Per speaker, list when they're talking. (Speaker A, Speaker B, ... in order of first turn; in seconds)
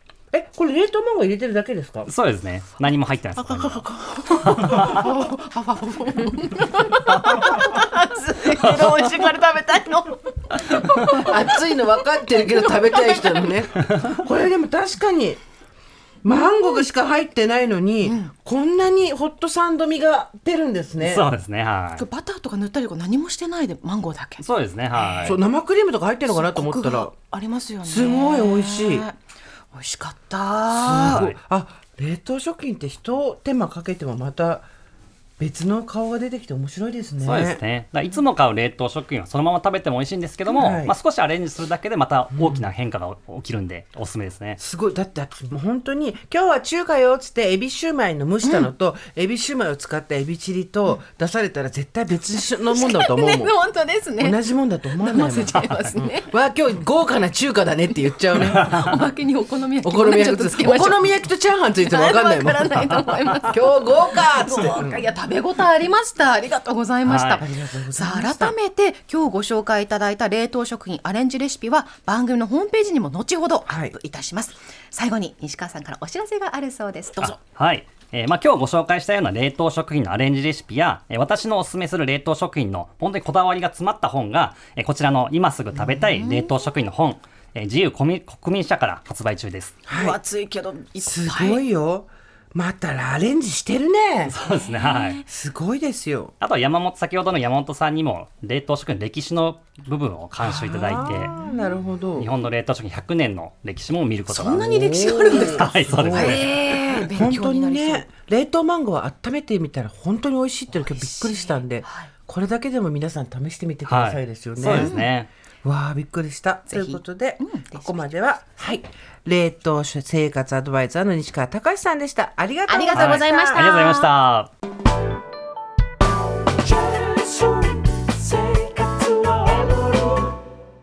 Speaker A: 0.3-2.1, 11.0-15.4, 16.2-21.3, 25.2-27.1, 27.9-29.1, 30.7-34.7, 35.4-37.6, 40.5-40.9, 44.6-53.6, 54.2-58.6, 59.8-65.0, 67.4-68.5, 73.7-73.9, 89.9-90.2, 91.0-94.3, 95.3-96.3, 100.5-102.3, 104.6-106.5, 107.1-115.0, 115.6-123.7
Speaker B: 2.1-5.0, 8.6-9.1, 21.0-22.1, 24.4-25.4, 31.0-31.4, 37.2-44.6, 58.4-59.0, 67.0-67.5, 77.2-89.8, 94.3-95.2, 96.4-101.3, 102.2-104.7, 105.3-106.6, 113.9-115.3, 122.9-124.5
Speaker C: 4.2-11.8, 12.4-13.5, 18.0-18.3, 22.0-25.4, 26.3-29.2, 29.7-31.3, 52.7-54.4, 55.0-56.3, 58.6-61.0, 61.8-77.4, 85.8-86.5, 89.9-91.6, 94.5-95.2, 101.1-101.6, 104.3-108.1, 110.7-112.1, 114.7-115.1, 116.7-118.1, 122.7-124.1, 127.2-127.5, 128.5-129.5